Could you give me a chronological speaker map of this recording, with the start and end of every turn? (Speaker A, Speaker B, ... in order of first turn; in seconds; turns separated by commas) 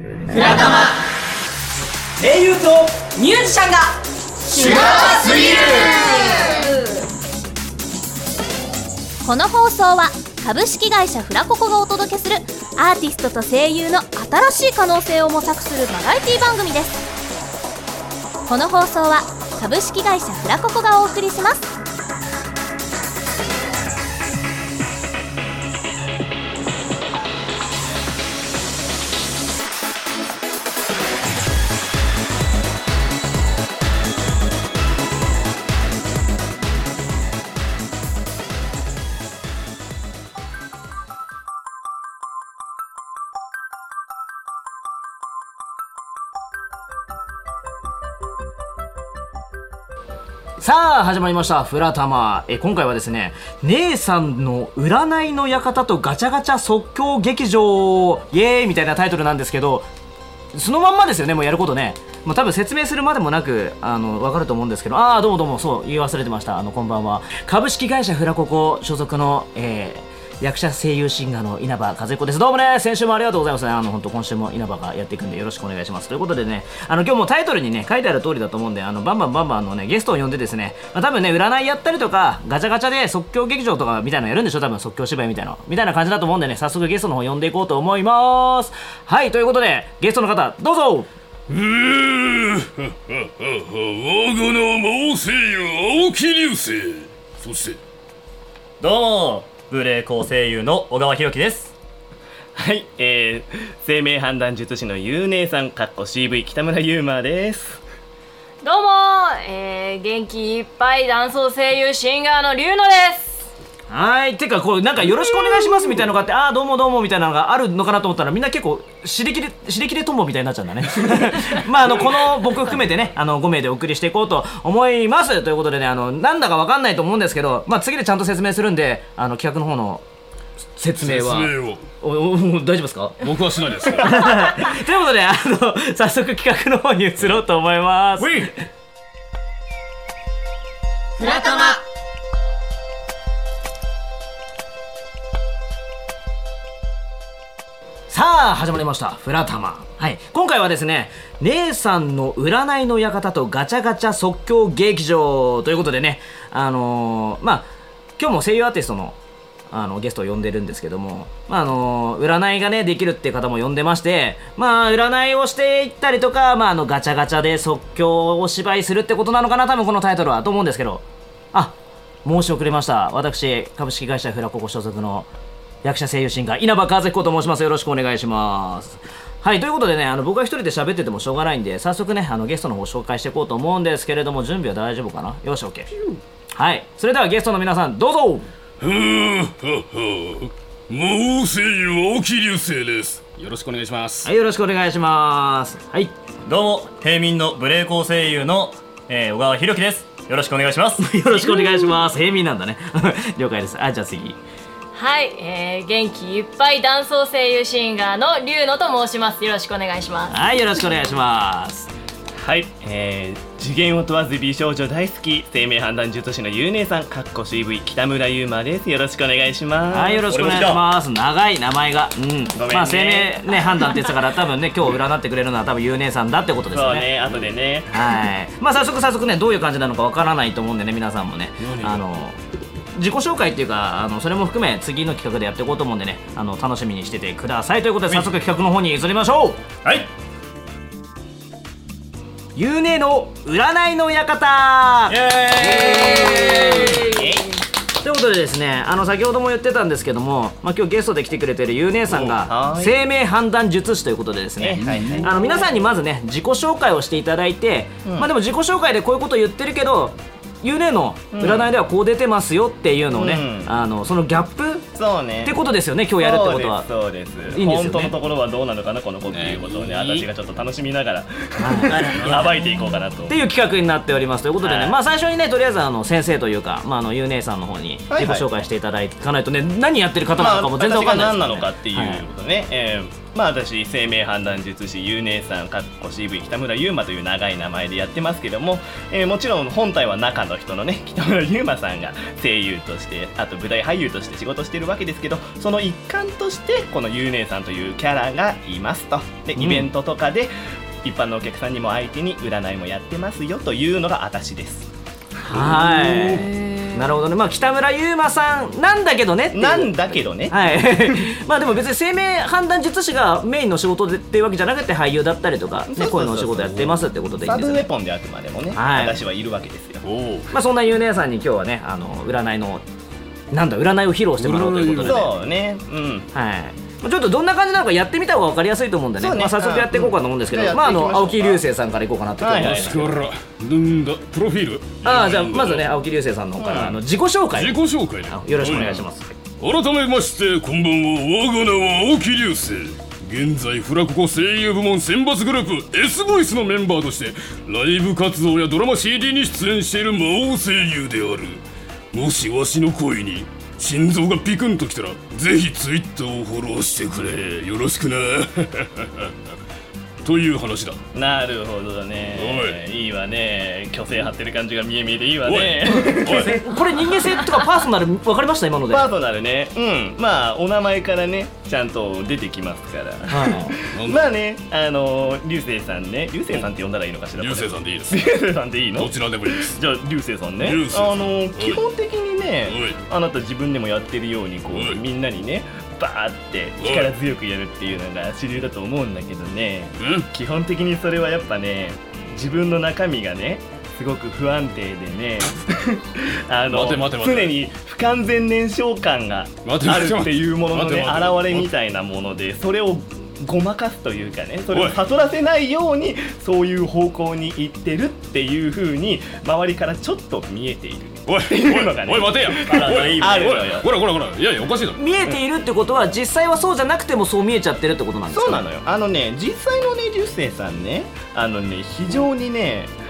Speaker A: 0.3-0.9, Speaker A: 2.2-6.7, Speaker B: 9.2-17.1, Speaker B: 18.5-21.7, Speaker C: 50.6-59.9, Speaker C: 60.5-91.1, Speaker D: 91.5-97.8, Speaker E: 98.8-101.7, Speaker F: 102.5-107.8, Speaker G: 108.6-113.5, Speaker C: 113.9-130.0, Speaker C: 130.8-133.3, Speaker D: 131.0-131.8, Speaker D: 133.2-134.6, Speaker C: 134.0-138.5, Speaker D: 138.2-138.5, Speaker A: 141.2-141.8, Speaker C: 148.1-157.7, Speaker C: 158.2-159.2, Speaker C: 159.7-175.3, Speaker C: 175.8-185.9, Speaker D: 185.9-186.2, Speaker C: 186.5-188.5, Speaker D: 188.8-194.3, Speaker C: 194.2-196.1, Speaker E: 196.4-201.0, Speaker C: 201.0-204.4, Speaker G: 204.9-210.3, Speaker C: 210.3-211.9, Speaker F: 212.3-220.4, Speaker C: 219.9-227.1, Speaker E: 220.2-220.8, Speaker F: 222.5-223.4, Speaker F: 226.7-228.1, Speaker C: 227.9-232.3, Speaker D: 231.6-232.0, Speaker C: 232.9-239.6, Speaker E: 239.8-240.1, Speaker C: 242.5-246.9, Speaker E: 245.1-246.7, Speaker F: 245.7-247.5, Speaker G: 245.9-247.3, Speaker C: 248.0-264.9, Speaker F: 252.4-253.0, Speaker F: 254.6-255.3, Speaker D: 254.9-255.3, Speaker F: 258.0-258.3, Speaker F: 261.3-261.7, Speaker F: 263.1-263.7, Speaker F: 264.9-265.6, Speaker C: 265.4-266.9, Speaker F: 266.2-273.4, Speaker C: 267.5-268.1, Speaker D: 269.3-270.3, Speaker C: 271.6-272.1, Speaker E: 271.9-272.5, Speaker D: 272.2-272.5, Speaker C: 273.3-282.2, Speaker F: 274.6-275.0, Speaker F: 278.1-278.5, Speaker F: 280.3-304.9, Speaker C: 299.6-299.8, Speaker C: 305.4-317.9, Speaker D: 305.5-306.5, Speaker G: 306.4-307.0, Speaker F: 309.5-311.3, Speaker F: 315.9-320.0, Speaker C: 318.7-319.2, Speaker D: 320.0-320.5, Speaker C: 320.5-322.8, Speaker C: 323.5-325.3, Speaker D: 324.4-325.3, Speaker F: 325.0-326.3, Speaker C: 326.3-333.0, Speaker F: 329.2-331.6, Speaker F: 332.4-333.1, Speaker D: 332.5-335.9, Speaker C: 335.0-339.3, Speaker F: 336.6-337.0, Speaker D: 337.5-339.0, Speaker D: 339.6-359.3, Speaker D: 360.2-361.0, Speaker F: 361.1-366.6, Speaker D: 362.4-362.8, Speaker D: 365.4-366.6, Speaker C: 366.2-369.1, Speaker F: 368.9-413.9, Speaker C: 373.3-373.8, Speaker D: 373.9-374.2, Speaker D: 377.4-378.2, Speaker D: 378.9-379.8, Speaker D: 380.6-381.8, Speaker D: 382.7-383.0, Speaker D: 384.7-385.0, Speaker D: 386.8-387.1, Speaker D: 390.0-390.3, Speaker D: 396.7-397.6, Speaker D: 399.6-401.7, Speaker D: 404.7-405.0, Speaker D: 411.3-415.2, Speaker E: 412.6-413.6, Speaker C: 415.0-418.6, Speaker F: 418.3-422.9